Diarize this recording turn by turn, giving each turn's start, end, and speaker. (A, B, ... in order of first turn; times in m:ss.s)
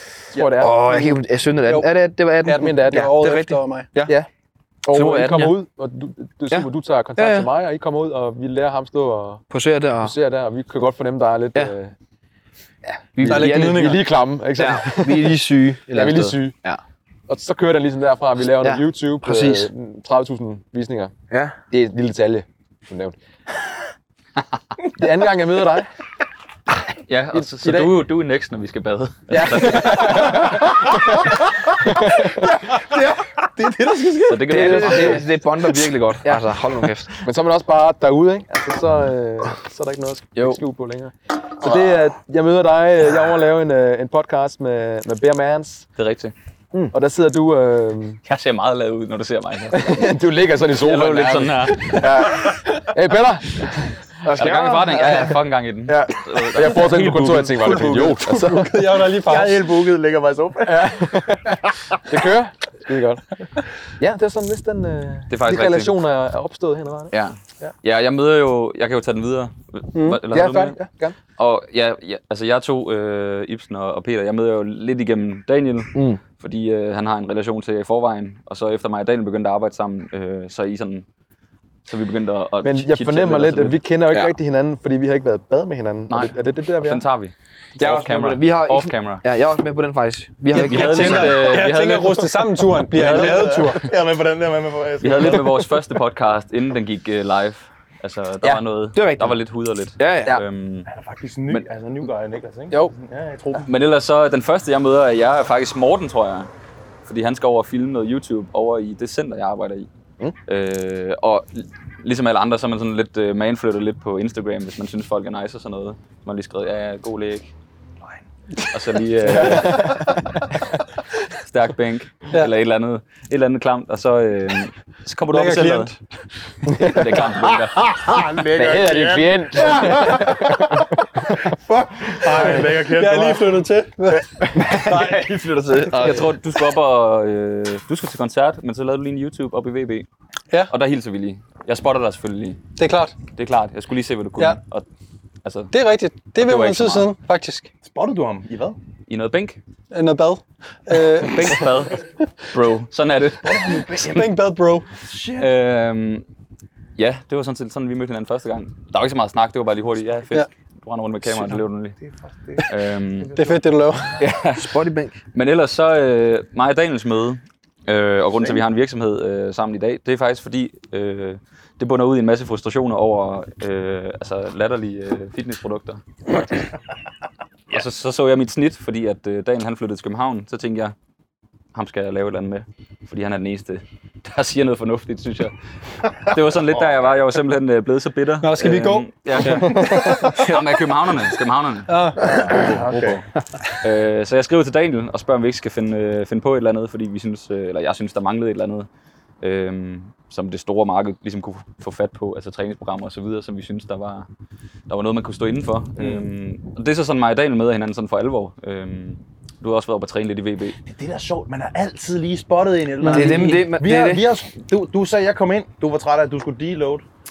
0:00.3-0:01.0 A
0:00.5-0:04.2 B
0:01.7-0:01.9 C
0:02.4-0:03.9 C
0:02.5-0:03.1 A
0:04.8-0:09.4 A
0:04.9-0:05.6 B
0:06.5-0:07.5 B
0:09.5-0:10.1 B
0:10.0-0:12.0 A
0:13.2-0:14.0 B
0:13.2-0:16.6 A
0:13.2-0:14.0 C
0:14.6-0:16.8 B
0:17.3-0:21.2 A
0:18.5-0:19.7 B
0:21.3-0:21.6 B
0:21.7-0:23.2 A
0:24.9-0:25.9 A
0:27.1-0:30.5 D
0:27.3-0:28.0 A
0:29.3-0:32.5 A
0:31.9-0:35.2 E
0:34.3-0:35.3 D
0:34.5-0:37.2 B
0:34.5-0:35.2 A
0:37.1-0:45.9 A
0:46.0-0:46.3 D
0:46.8-0:48.2 A
0:48.3-0:50.2 D
0:49.7-0:53.8 A
0:50.7-0:52.5 D
0:54.2-0:55.4 B
0:54.3-0:57.4 D
0:55.9-0:59.0 A
0:56.7-0:58.2 E
0:57.8-0:59.7 C
0:59.1-1:01.2 E
1:00.6-1:03.4 A
1:04.0-1:07.7 A
1:05.3-1:05.9 D
1:07.1-1:10.8 D
1:10.0-1:10.2 C
1:10.3-1:11.2 A
1:11.4-1:21.0 D
1:16.0-1:16.2 B
1:21.9-1:23.8 D
1:22.6-1:27.0 A
1:26.1-1:29.2 D
1:27.8-1:31.5 B
1:30.5-1:33.9 C
1:30.6-1:32.4 D
1:33.0-1:33.6 D
1:33.0-1:35.6 E
1:35.0-1:40.9 D
1:39.0-1:39.4 B
1:40.0-1:40.4 B
1:40.9-1:43.7 E
1:43.6-1:46.5 D
1:47.1-1:49.9 D
1:50.5-1:57.5 D
1:58.7-2:00.2 D
1:59.2-2:00.2 A
2:01.4-2:05.9 D
2:05.3-2:06.0 C
2:06.7-2:07.3 A
2:06.8-2:07.9 D
2:07.8-2:13.6 E
2:08.6-2:11.4 A
2:12.2-2:15.3 C
2:14.2-2:14.9 A
2:14.6-2:14.9 B
2:14.9-2:16.3 E
2:15.8-2:20.1 D
2:20.7-2:22.6 D
2:22.8-2:23.2 C
2:23.4-2:24.8 D
2:25.4-2:25.7 D
2:25.7-2:27.7 C
2:26.4-2:27.1 D
2:27.8-2:28.8 E
2:29.1-2:29.6 D
2:29.9-2:31.6 C
2:31.2-2:33.9 D
2:33.4-2:34.3 E
2:34.0-2:34.9 C
2:35.0-2:35.5 E
2:35.4-2:36.2 D
2:37.0-2:42.0 D
2:42.0-2:43.6 E
2:42.6-2:43.4 D
2:43.4-2:44.2 C
2:44.2-2:44.8 D
2:44.2-2:45.2 B
2:45.3-2:56.7 D
2:57.7-3:01.0 D
3:01.7-3:05.5 D
3:06.2-3:13.2 D
3:08.4-3:10.2 C
3:09.5-3:10.3 E
3:09.8-3:10.6 B
3:11.9-3:12.4 C
3:12.2-3:13.2 E
3:13.8-3:18.9 D
3:19.4-3:24.3 D
3:24.9-3:30.8 D
3:26.0-3:26.2 E
3:30.9-3:37.0 E
3:33.0-3:33.5 C
3:33.1-3:34.3 B